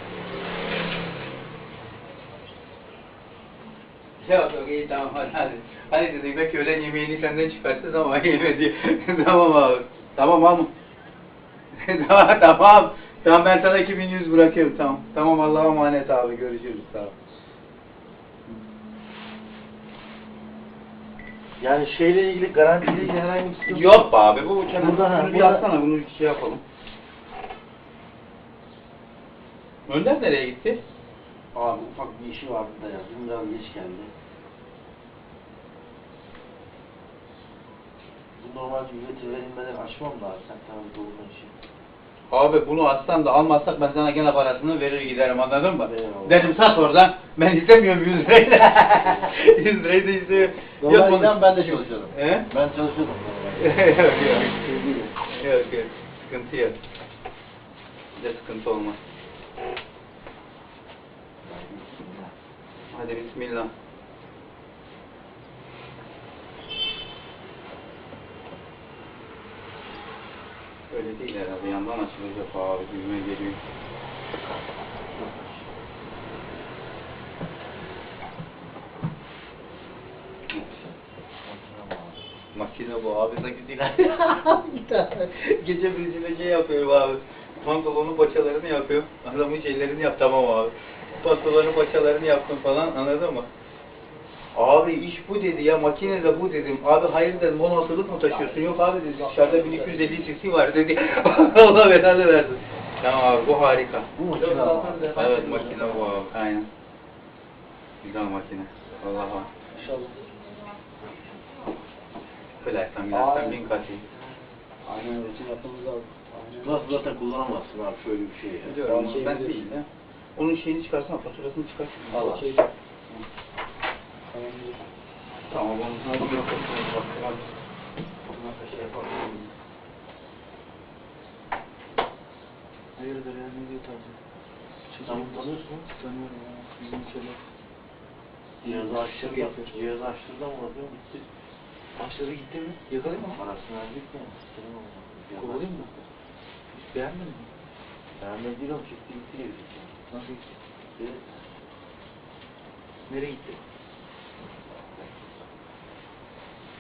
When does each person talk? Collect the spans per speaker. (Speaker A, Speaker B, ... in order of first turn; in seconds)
Speaker A: 4.2-10.7, 11.7-17.1, 23.7-26.6, 29.9-30.8, 42.3-52.5, 53.6-54.5, 55.3-56.8, 58.2-59.0, 62.9-63.7, 70.9-73.6, 80.5-80.9, 82.5-93.5, 94.5-104.1, 105.1-106.7, 108.0-109.5, 112.6-114.0, 118.6-122.4, 125.5-127.5, 128.4-129.4
Speaker B: 21.6-24.1, 24.8-25.7, 31.5-34.1, 38.4-41.5, 45.9-46.6, 49.0-49.4, 50.8-54.4, 61.4-62.4, 75.0-75.7, 81.4-82.2, 104.2-106.0, 114.0-114.5, 116.6-118.8, 122.1-122.5, 135.1-135.9, 138.6-141.3, 143.3-145.9, 148.2-149.9, 151.0-151.5, 154.4-155.3
Speaker C: 54.3-55.2, 98.2-100.3, 104.3-106.1, 109.7-110.2, 113.1-113.7, 114.8-117.1, 118.8-119.7, 122.1-122.7, 124.3-124.8, 133.0-134.2, 134.9-137.4, 138.6-139.9, 142.0-143.4, 145.4-145.9, 146.7-147.5, 150.1-150.6, 153.1-153.6